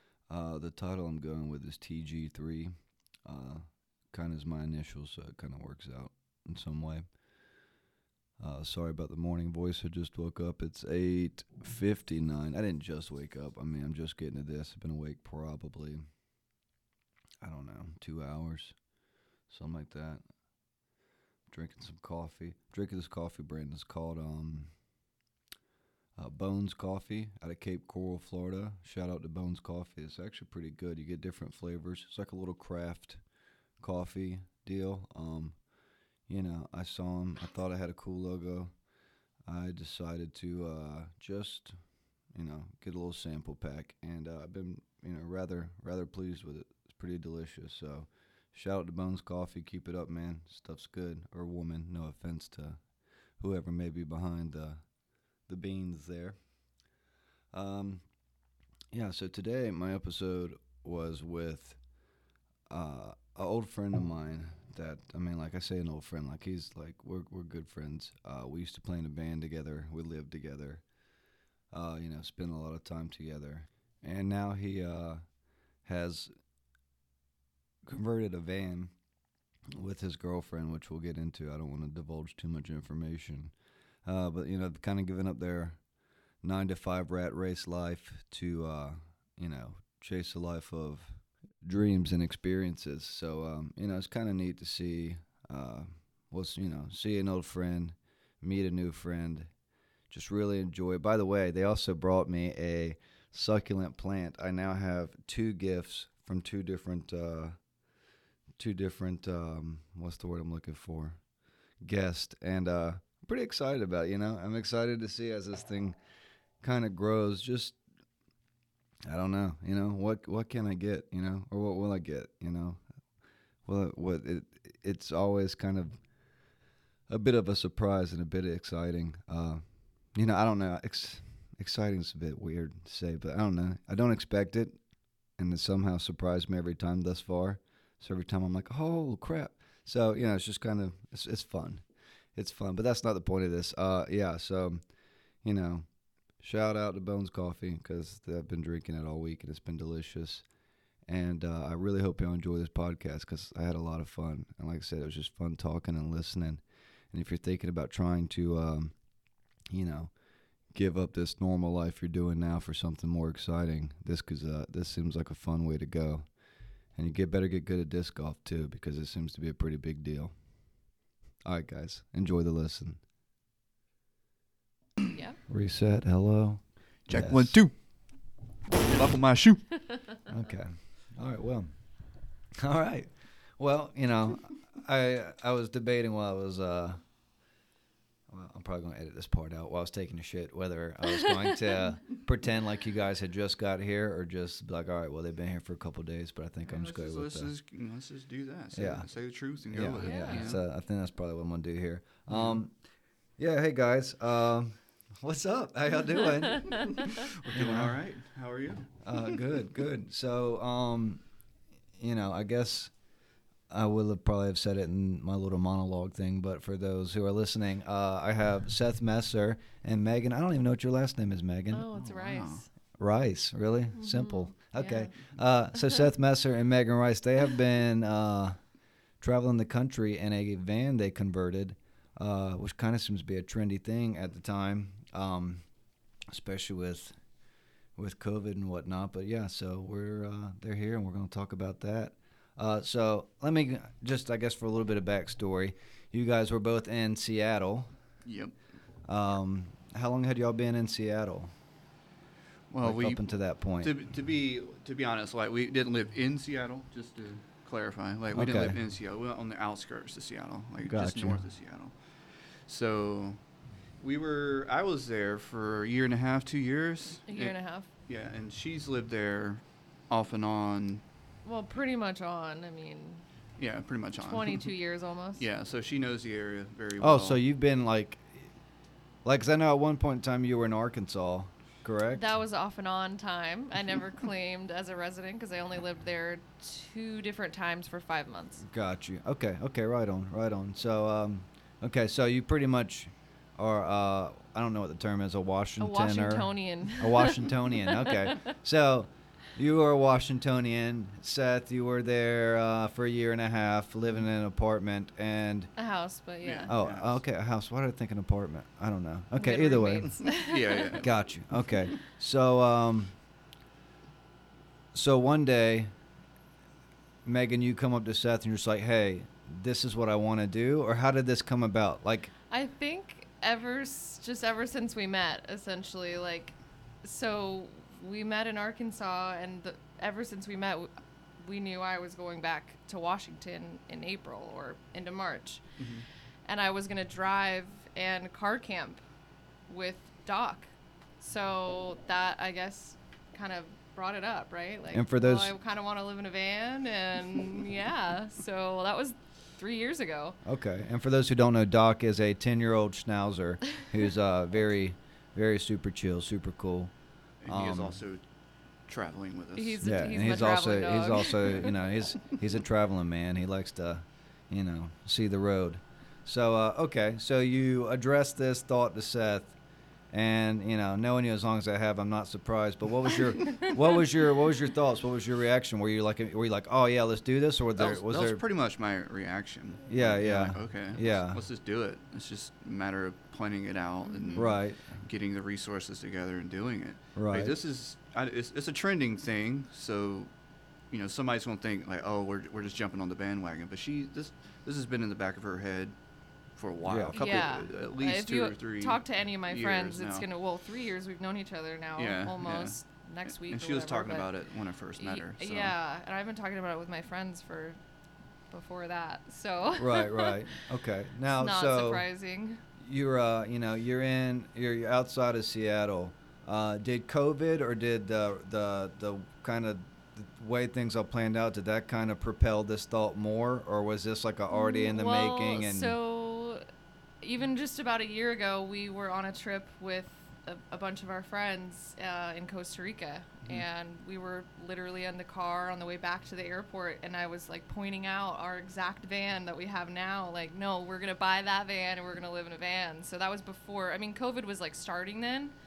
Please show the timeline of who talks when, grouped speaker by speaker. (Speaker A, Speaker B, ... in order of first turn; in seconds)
Speaker A: 0.3-2.7, 3.2-7.0, 8.4-16.0, 17.4-18.8, 19.5-20.2, 21.5-24.7, 26.1-33.2, 33.8-35.6, 36.3-38.7, 39.5-41.8, 42.3-52.8, 53.4-54.8, 55.5-56.4, 57.5-58.0, 58.9-61.8, 62.7-70.8, 71.7-75.2, 75.8-76.3, 77.8-78.9, 79.7-83.5, 84.0-85.8, 86.4-99.5, 100.1-107.5, 108.6-111.2, 111.8-116.0, 116.6-117.8, 119.1-122.8, 123.6-126.0, 127.1-129.6, 130.1-134.8, 135.4-141.8, 142.3-144.8, 145.4-145.9, 146.4-150.4, 151.1-159.0, 159.7-160.1, 160.7-166.2, 166.9-170.3, 171.4-173.0, 175.5-177.6, 180.3-181.7, 182.6-187.0, 188.3-197.5, 198.7-199.1, 199.7-202.7, 203.4-207.9, 209.0-211.2, 212.0-212.9, 213.7-221.9, 223.0-228.6, 229.2-235.6, 236.3-237.2, 237.9-247.9, 249.1-251.5, 252.8-253.9, 258.3-258.8, 260.8-261.4, 277.0-278.5, 279.2-282.2, 288.6-305.7, 306.7-310.1, 311.0-313.1, 314.9-315.9, 317.2-322.3, 344.9-345.5, 350.4-356.9, 357.4-358.0, 359.8-369.5, 370.1-378.4, 379.9-381.4, 384.4-384.8, 387.1-387.6, 396.8-397.2, 409.8-412.1, 412.8-426.0
Speaker B: 175.1-175.4, 200.0-200.6, 221.7-222.7, 223.9-225.1, 267.3-267.9, 271.4-273.2, 274.2-275.4, 282.1-288.6, 295.8-298.4, 305.8-306.7, 309.4-311.0, 322.5-335.8, 336.4-339.0, 339.7-340.7, 341.2-350.4, 359.6-361.9, 384.1-384.5, 397.1-404.3, 405.0-407.8, 408.5-410.4, 411.4-412.6, 424.5-426.6, 427.2-445.5
Speaker C: 177.1-177.7, 178.8-179.7, 196.7-200.6, 202.3-202.6, 206.7-209.6, 221.9-222.6, 248.2-248.5, 252.7-253.3, 253.8-261.9, 262.6-263.4, 264.0-267.6, 268.1-271.0, 273.6-274.7, 275.4-277.4, 306.4-307.2, 310.2-311.1, 335.8-336.1, 357.4-358.2, 358.9-359.8, 377.8-390.3, 390.9-395.9, 396.6-400.2, 401.9-405.7